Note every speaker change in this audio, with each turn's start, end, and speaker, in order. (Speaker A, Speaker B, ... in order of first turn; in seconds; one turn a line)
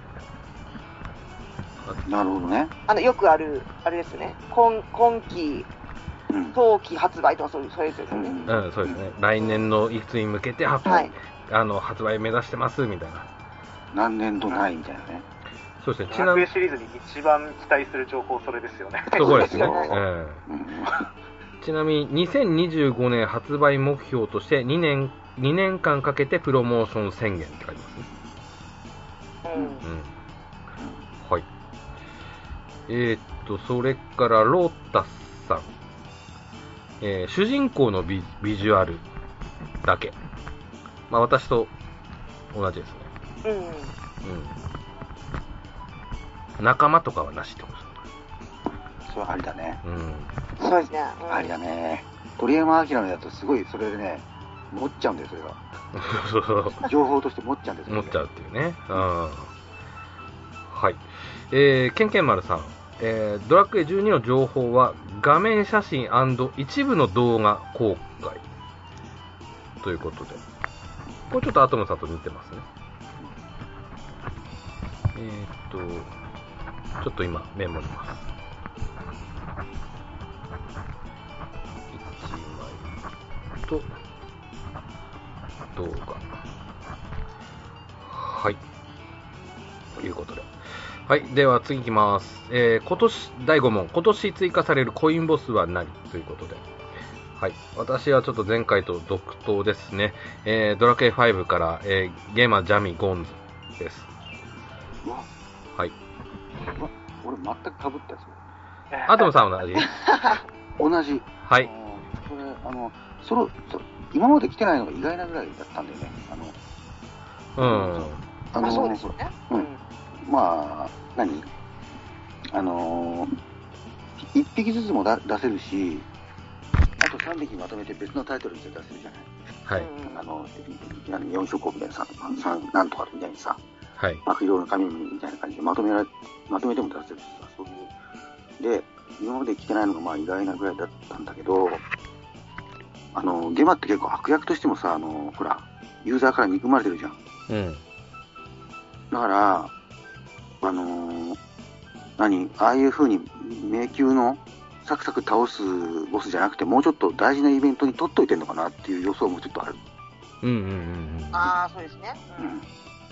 Speaker A: 2.0-2.7
Speaker B: 2.9-5.7
Speaker A: 6.3-6.6
Speaker B: 6.5-8.4
Speaker A: 8.1-9.0
Speaker C: 8.5-13.3
Speaker B: 10.8-11.1
Speaker A: 13.9-15.3
Speaker C: 15.8-16.5
Speaker D: 16.1-19.4
Speaker C: 19.2-20.4
Speaker B: 19.2-20.0
Speaker A: 19.2-21.1
Speaker C: 21.6-28.1
Speaker B: 29.4-29.8
Speaker C: 29.8-30.1
Speaker C: 32.9-35.7
Speaker C: 37.0-39.0
Speaker C: 39.8-40.1
Speaker C: 41.1-41.7
Speaker C: 42.5-43.1
Speaker B: 43.4-43.9
Speaker C: 44.2-44.6
Speaker C: 46.6-48.0
Speaker A: 49.1-49.8
Speaker C: 49.8-50.3
Speaker B: 50.6-51.5
Speaker A: 51.3-55.6
Speaker C: 56.0-56.9
Speaker A: 56.8-58.2
Speaker C: 57.9-59.5
Speaker C: 60.7-68.4
Speaker C: 69.8-70.4
Speaker C: 71.3-72.7
Speaker C: 75.1-76.1
Speaker C: 77.0-78.3
Speaker C: 81.9-82.9
Speaker C: 85.7-86.3
Speaker C: 88.0-88.6
Speaker C: 90.0-90.5
Speaker C: 91.1-96.6
Speaker C: 97.4-104.1
Speaker A: 105.0-105.3
Speaker A: 106.7-108.4
Speaker D: 108.9-109.3
Speaker C: 109.1-110.0
Speaker B: 109.8-110.4
Speaker A: 110.8-116.6
Speaker C: 117.6-118.2
Speaker A: 117.6-121.5
Speaker B: 118.6-119.8
Speaker A: 122.5-123.4
Speaker A: 124.2-126.1
Speaker A: 127.0-129.3
Speaker B: 129.8-130.2
Speaker A: 130.1-133.6
Speaker C: 134.0-134.2
Speaker A: 134.2-137.9
Speaker A: 138.6-141.8
Speaker A: 143.1-147.2
Speaker C: 147.5-147.8
Speaker A: 149.1-149.7
Speaker A: 150.6-151.4
Speaker A: 152.2-159.8
Speaker C: 160.4-161.5
Speaker B: 161.3-162.5
Speaker A: 162.4-162.7